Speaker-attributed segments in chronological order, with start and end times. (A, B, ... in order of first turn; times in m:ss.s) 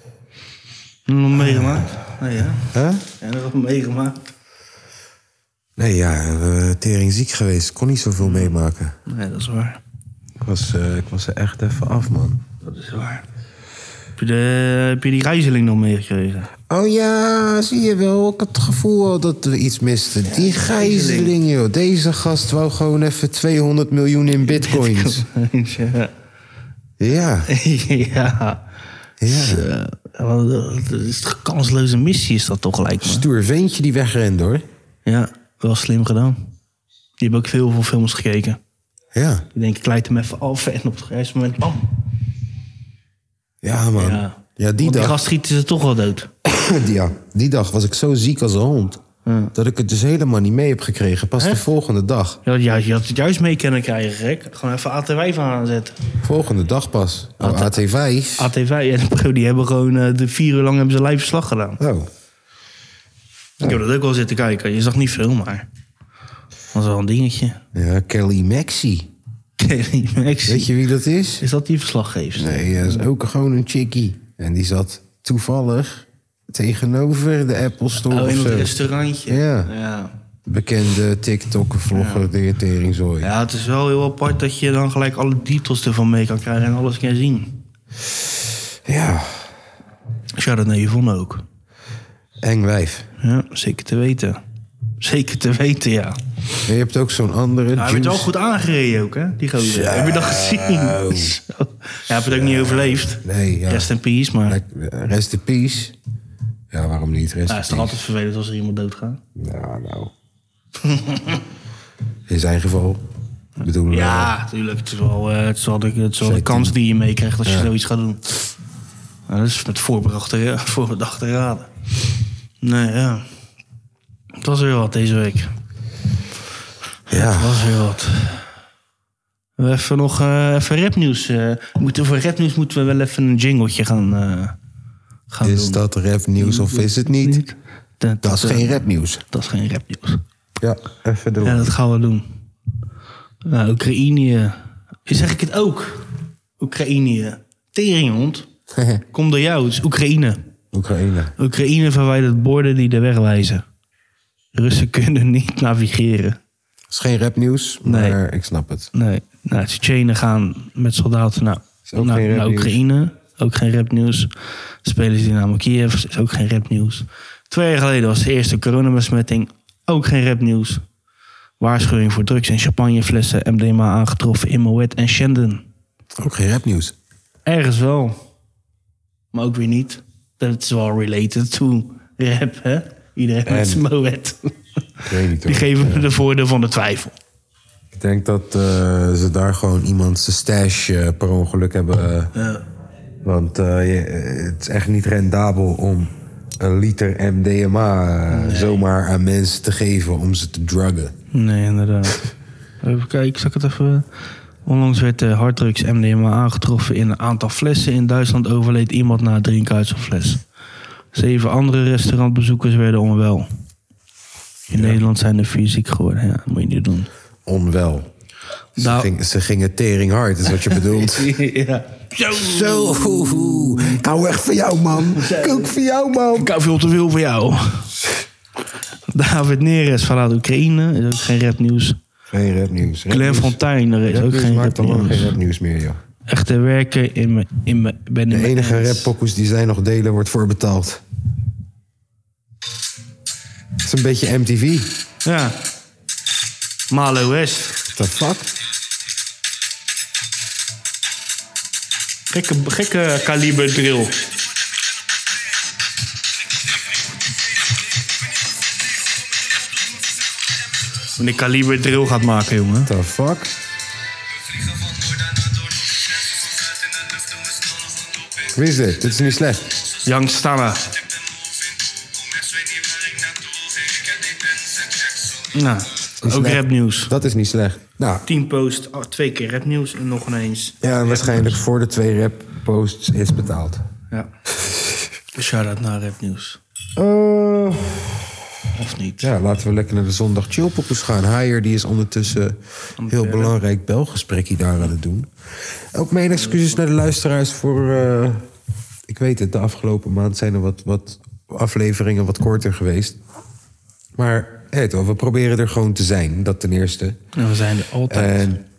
0:01.1-0:04.3 A
0:01.5-0:01.8 B
0:02.7-0:03.0 B
0:05.8-0:08.9 B
0:08.2-0:09.8 A
0:10.4-0:12.4 B
0:12.6-0:13.2 A
0:14.2-0:16.5 A
0:16.7-0:25.2 B
0:20.2-0:21.3 A
0:24.4-0:26.1 A
0:27.0-0:27.5 B
0:27.5-0:28.6 A
0:29.2-0:29.6 B
0:29.3-0:33.2 A
0:33.0-0:34.6 B
0:35.0-0:36.4 A
0:37.2-0:38.6 A
0:39.1-0:39.4 B
0:39.5-0:41.8 A
0:43.6-0:45.2 B
0:44.0-0:46.3 A
0:46.4-0:49.0 B
0:49.2-0:49.5 A
0:49.5-0:52.4 B
0:52.4-0:56.0 A
0:56.2-0:58.5 B
0:57.4-0:57.8 A
0:58.4-1:01.8 A
1:01.8-1:02.1 B
1:03.6-1:05.7 A
1:06.7-1:07.6 A
1:07.7-1:09.1 B
1:09.6-1:10.7 A
1:10.5-1:11.4 B
1:11.4-1:13.1 A
1:12.3-1:18.7 B
1:18.0-1:20.1 A
1:19.3-1:19.7 B
1:20.4-1:23.3 B
1:21.9-1:22.3 A
1:23.2-1:27.6 A
1:28.8-1:29.4 B
1:30.4-1:31.4 A
1:32.4-1:33.0 B
1:33.2-1:34.4 A
1:35.0-1:36.2 A
1:36.6-1:38.3 B
1:37.8-1:44.6 A
1:39.6-1:41.4 B
1:42.2-1:43.9 B
1:44.4-1:45.9 B
1:46.7-1:48.0 B
1:47.5-1:49.2 A
1:49.4-1:50.1 B
1:50.8-1:51.4 A
1:52.3-1:53.0 B
1:53.6-1:54.3 B
1:53.9-1:58.2 A
1:56.2-1:56.8 B
1:57.4-1:57.7 B
1:59.3-2:01.7 A
2:02.6-2:03.3 A
2:04.4-2:05.5 A
2:07.1-2:07.8 B
2:07.1-2:08.5 A
2:09.6-2:14.6 A
2:15.3-2:15.8 A
2:15.4-2:17.4 B
2:16.4-2:20.2 A
2:18.2-2:19.2 B
2:20.6-2:21.7 B
2:21.4-2:22.3 A
2:23.4-2:26.1 A
2:26.6-2:28.5 A
2:28.7-2:29.0 B
2:29.1-2:30.5 A
2:30.7-2:31.3 B
2:31.4-2:33.6 A
2:34.5-2:36.4 A
2:36.9-2:38.9 B
2:37.8-2:38.2 A
2:38.9-2:44.3 A
2:41.9-2:42.8 B
2:44.8-2:50.8 A
2:51.6-2:55.7 A
2:56.2-2:56.9 B
2:57.4-2:58.2 A
2:59.3-3:07.2 A
3:03.4-3:03.8 B
3:05.0-3:06.1 B
3:07.9-3:12.3 B
3:12.3-3:12.6 A
3:13.2-3:21.1 B
3:18.3-3:18.8 A
3:21.3-3:22.3 A
3:22.8-3:24.1 A
3:24.6-3:30.4 A
3:31.1-3:33.5 A
3:34.7-3:35.0 B
3:34.7-3:37.1 A
3:37.4-3:38.1 B
3:38.8-3:39.1 A
3:38.8-3:41.3 B
3:40.5-3:44.0 A
3:42.2-3:46.5 B
3:45.0-3:45.7 A
3:46.3-3:47.9 A
3:49.1-3:52.0 A
3:52.3-3:56.0 B
3:53.1-3:55.4 A
3:56.3-3:59.1 A
3:58.3-4:01.0 B
4:03.8-4:04.9 B
4:05.2-4:05.6 A
4:06.9-4:07.8 A
4:07.9-4:08.5 B
4:12.3-4:14.2 A
4:21.2-4:22.9 A
4:22.8-4:23.6 B
4:28.5-4:29.7 B
4:30.0-4:30.9 A
4:35.5-4:37.1 A
4:36.2-4:38.2 B
4:38.2-4:41.6 A
4:40.8-4:43.8 B
4:44.6-4:45.0 B
4:45.3-4:46.6 A
4:47.0-4:48.4 B
4:48.7-4:49.3 A
4:49.2-4:58.4 B
4:53.0-4:53.5 A
4:56.4-4:56.7 A
4:59.1-5:03.2 B
5:04.2-5:07.2 B
5:07.4-5:08.6 A
5:08.1-5:08.6 B